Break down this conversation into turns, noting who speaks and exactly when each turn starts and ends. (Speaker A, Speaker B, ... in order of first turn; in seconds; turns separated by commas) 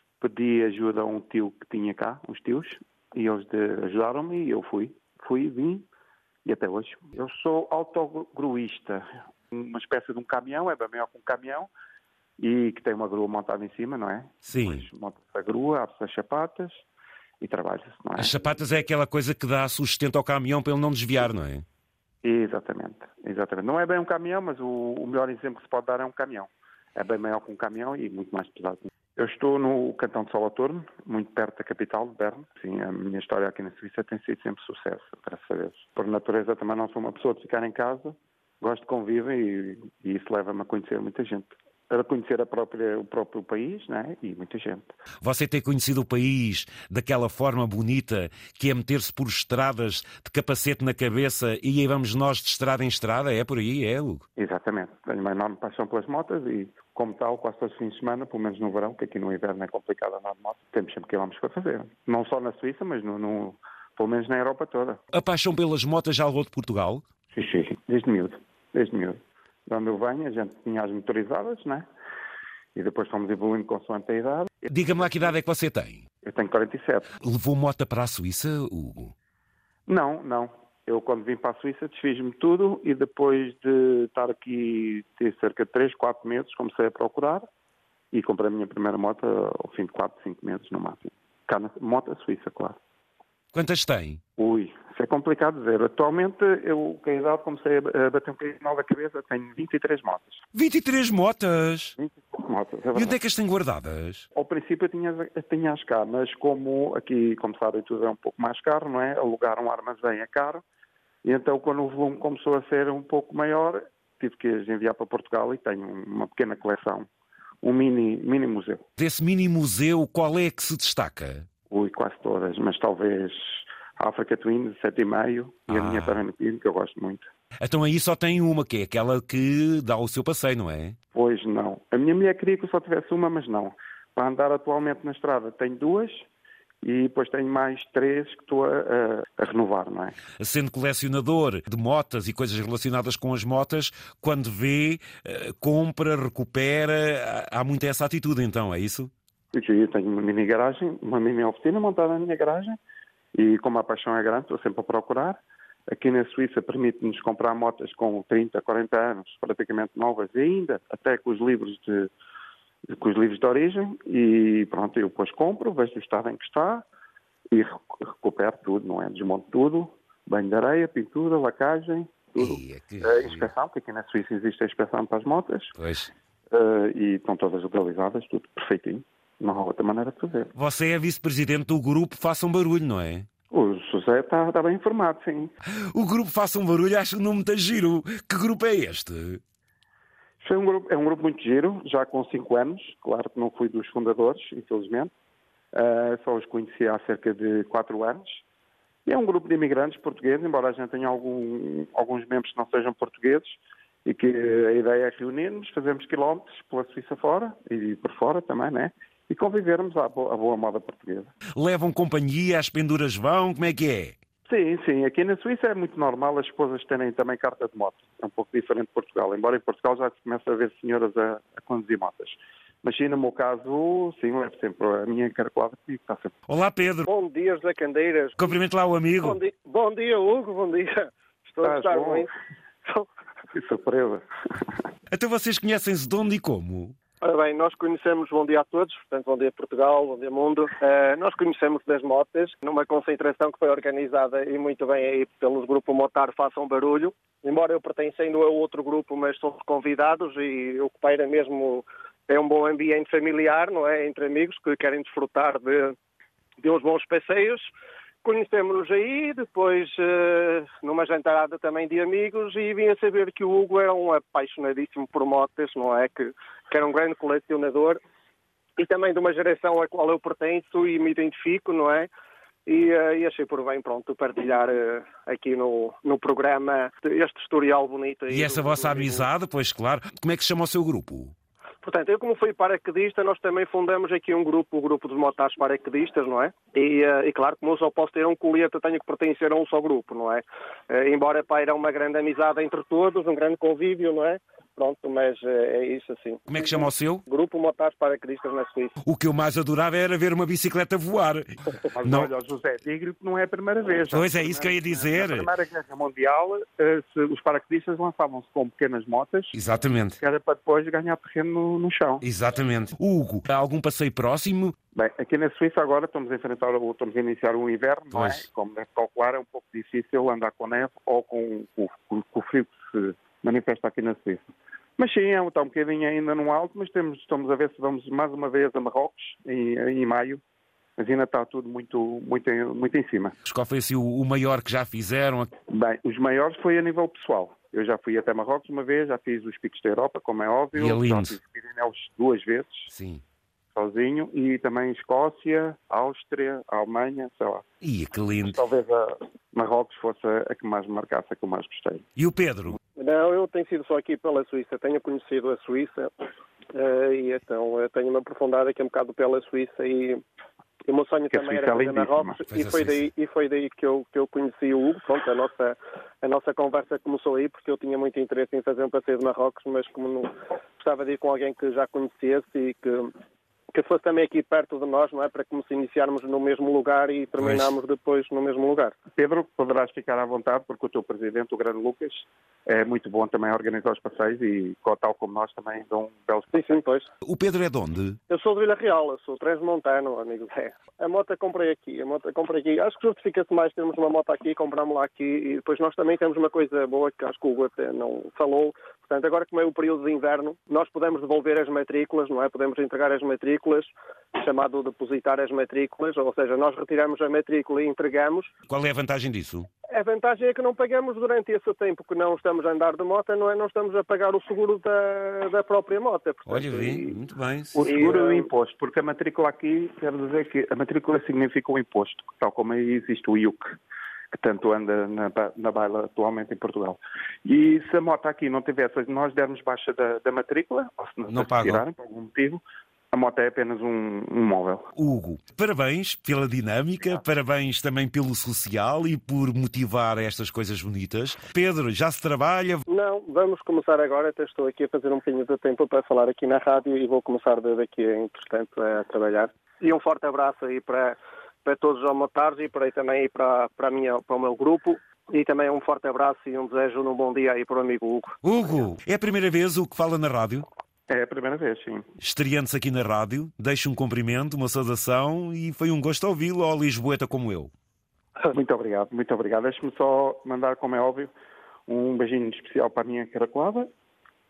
Speaker A: 0.2-5.9, Speaker A: 6.5-11.7, Speaker A: 12.4-16.9, Speaker B: 14.5-14.9, Speaker A: 17.4-18.3, Speaker B: 18.2-21.6, Speaker A: 22.2-45.0, Speaker B: 45.2-54.2, Speaker A: 54.4-65.0, Speaker B: 65.1-67.0, Speaker A: 67.3-71.9, Speaker A: 72.8-74.7, Speaker B: 74.7-76.0, Speaker A: 76.2-77.2, Speaker B: 77.2-79.1, Speaker A: 79.9-87.5, Speaker A: 88.1-92.8, Speaker B: 93.5-94.2, Speaker A: 94.4-100.4, Speaker B: 100.5-102.0, Speaker A: 102.0-103.2, Speaker B: 102.9-104.2, Speaker A: 104.3-110.6, Speaker A: 111.2-117.1, Speaker A: 117.6-118.8, Speaker B: 119.0-121.5, Speaker A: 121.7-127.3, Speaker B: 125.7-126.2, Speaker B: 127.6-131.0, Speaker A: 131.1-136.3, Speaker A: 136.8-140.2, Speaker B: 140.4-149.1, Speaker A: 149.5-152.8, Speaker A: 153.3-155.4, Speaker A: 155.9-162.1, Speaker A: 162.9-166.8, Speaker A: 167.5-175.8, Speaker B: 172.4-173.5, Speaker B: 175.8-176.1, Speaker A: 176.5-180.5, Speaker B: 180.6-183.3, Speaker A: 183.5-185.5, Speaker B: 185.9-189.4, Speaker A: 190.4-195.1, Speaker A: 195.7-198.4, Speaker A: 199.1-211.3, Speaker B: 211.6-214.2, Speaker A: 214.5-226.3, Speaker B: 226.5-227.1, Speaker C: 227.1-228.5, Speaker B: 228.4-229.4, Speaker C: 229.2-232.3, Speaker A: 231.6-232.3, Speaker A: 233.5-234.2, Speaker B: 235.1-237.0, Speaker C: 237.2-256.0, Speaker C: 256.6-257.7, Speaker C: 258.2-268.0, Speaker C: 268.8-272.1, Speaker C: 272.7-279.3, Speaker B: 278.3-281.3, Speaker C: 281.8-299.0, Speaker B: 296.5-297.2, Speaker B: 299.0-301.5, Speaker A: 301.9-309.5, Speaker B: 302.0-302.3, Speaker B: 304.1-305.5, Speaker B: 309.5-310.2, Speaker A: 310.2-312.2, Speaker B: 312.2-314.8, Speaker A: 314.9-330.4, Speaker B: 318.1-318.5, Speaker A: 331.0-333.4, Speaker B: 333.4-335.5, Speaker A: 335.7-342.9, Speaker B: 340.8-341.4, Speaker B: 342.9-343.2, Speaker A: 343.8-347.6, Speaker B: 347.8-348.6, Speaker A: 348.4-352.0, Speaker B: 352.2-352.8, Speaker C: 353.0-360.2, Speaker C: 360.9-373.1, Speaker A: 361.3-362.4, Speaker B: 362.5-363.1, Speaker C: 373.7-379.0, Speaker B: 377.4-377.7, Speaker A: 379.1-386.7, Speaker C: 386.5-387.1, Speaker B: 387.2-388.2, Speaker C: 388.3-408.5, Speaker B: 408.7-409.7, Speaker C: 409.9-417.2, Speaker B: 416.5-418.1, Speaker A: 417.8-423.8, Speaker C: 417.8-418.5, Speaker A: 424.3-434.9, Speaker B: 431.3-431.9, Speaker B: 434.9-442.8, Speaker C: 442.9-458.4, Speaker B: 458.4-460.6, Speaker A: 461.1-462.0, Speaker B: 462.2-467.7, Speaker A: 468.5-471.3, Speaker A: 471.9-473.9